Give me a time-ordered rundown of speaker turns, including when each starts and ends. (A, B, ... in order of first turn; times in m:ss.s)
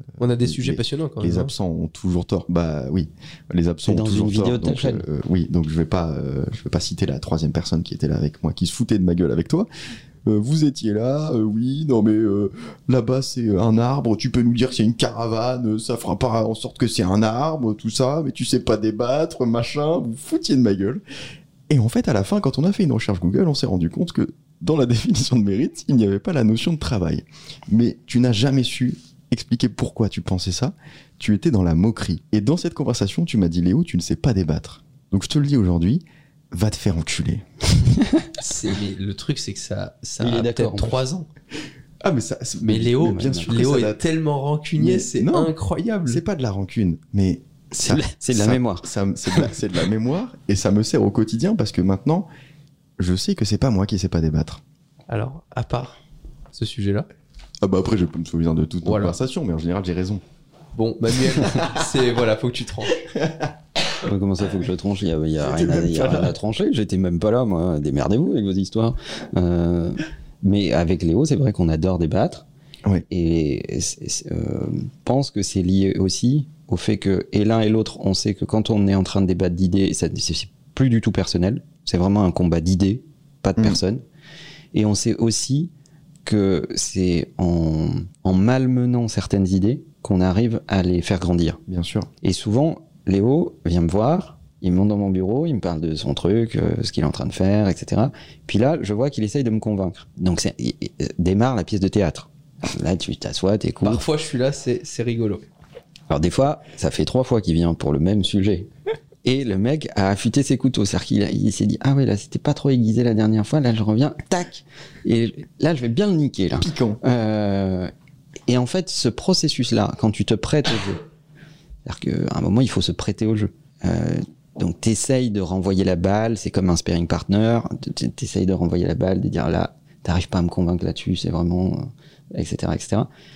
0:00.2-0:01.5 A
0:00.4-0:09.7 B
0:03.8-0:05.1 C
0:10.2-0:21.0 B
0:21.7-0:37.4 B
0:38.4-0:41.3 A
0:40.2-0:41.0 C
0:42.0-0:44.0 B
0:42.6-0:46.2 A
0:43.0-0:43.5 C
0:44.8-0:45.5 B
0:46.1-0:52.3 B
0:47.8-0:48.9 C
0:53.0-0:54.6 B
0:55.1-0:56.0 A
0:56.5-0:57.1 A
0:57.6-1:00.2 B
0:58.8-0:59.2 A
1:00.7-1:03.1 A
1:01.4-1:01.8 B
1:03.1-1:03.5 B
1:04.0-1:12.5 C
1:05.4-1:06.4 B
1:13.1-1:24.0 C
1:24.7-1:25.7 C
1:26.2-1:31.6 C
1:31.7-1:32.1 B
1:32.2-1:44.1 C
1:43.8-1:45.4 A
1:46.1-1:48.7 C
1:49.2-1:57.9 C
1:56.6-1:57.0 B
1:58.5-2:01.0 C
2:01.8-2:13.1 C